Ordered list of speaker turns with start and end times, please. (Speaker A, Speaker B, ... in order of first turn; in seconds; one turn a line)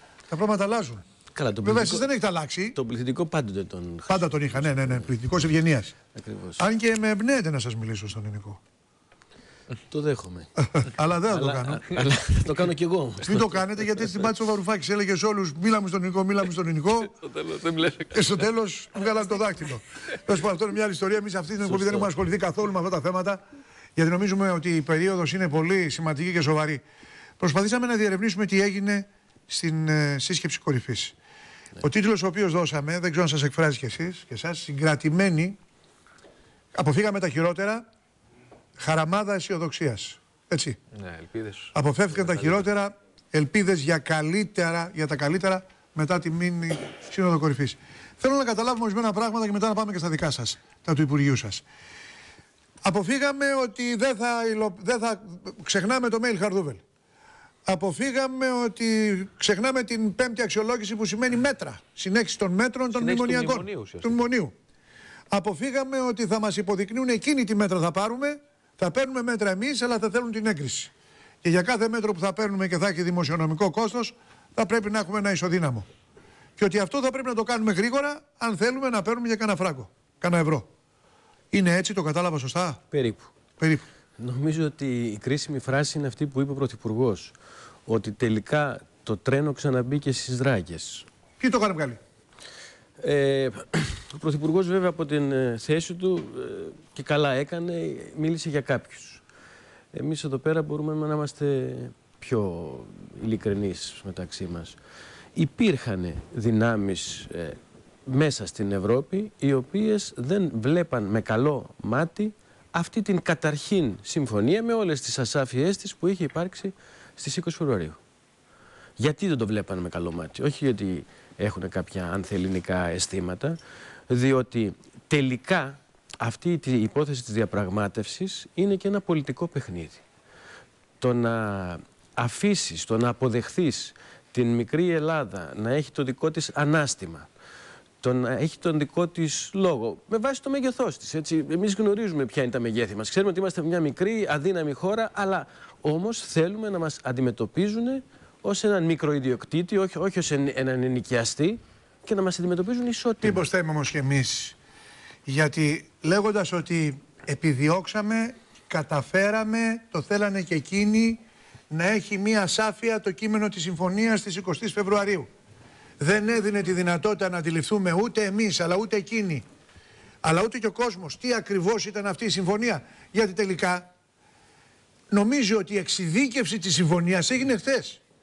Speaker A: 0.3-1.0
Speaker B: 1.3-2.1
Speaker A: 1.6-2.8
Speaker B: 2.7-5.1
Speaker A: 4.1-5.9
Speaker B: 6.1-6.6
Speaker A: 6.6-8.6
Speaker B: 9.9-10.5
Speaker A: 10.6-12.0
Speaker B: 11.3-14.1
Speaker A: 13.2-17.2
Speaker B: 17.2-18.2
Speaker A: 18.1-23.4
Speaker B: 21.6-22.1
Speaker A: 23.9-26.8
Speaker A: 27.4-31.1
Speaker A: 31.8-35.6
Speaker A: 36.7-37.8
Speaker A: 38.8-40.8
Speaker C: 40.9-41.7
Speaker A: 41.7-51.6
Speaker A: 52.8-56.8
Speaker A: 57.6-64.5
Speaker C: 62.9-64.2
Speaker A: 65.3-70.9
Speaker A: 71.4-75.8
Speaker A: 76.6-80.7
Speaker A: 81.5-82.8
Speaker B: 82.9-83.3
Speaker A: 83.6-83.8
Speaker B: 84.2-87.3
Speaker B: 87.9-91.0
Speaker A: 91.4-92.0
Speaker B: 93.0-99.2
Speaker B: 99.9-104.8
Speaker B: 105.3-118.0
Speaker B: 119.0-123.6
Speaker B: 124.1-130.0
Speaker B: 131.0-137.3
Speaker B: 138.0-153.4
Speaker A: 153.2-154.6
Speaker A: 155.2-165.3
Speaker A: 166.0-169.4
Speaker A: 170.2-173.9
Speaker A: 175.1-178.0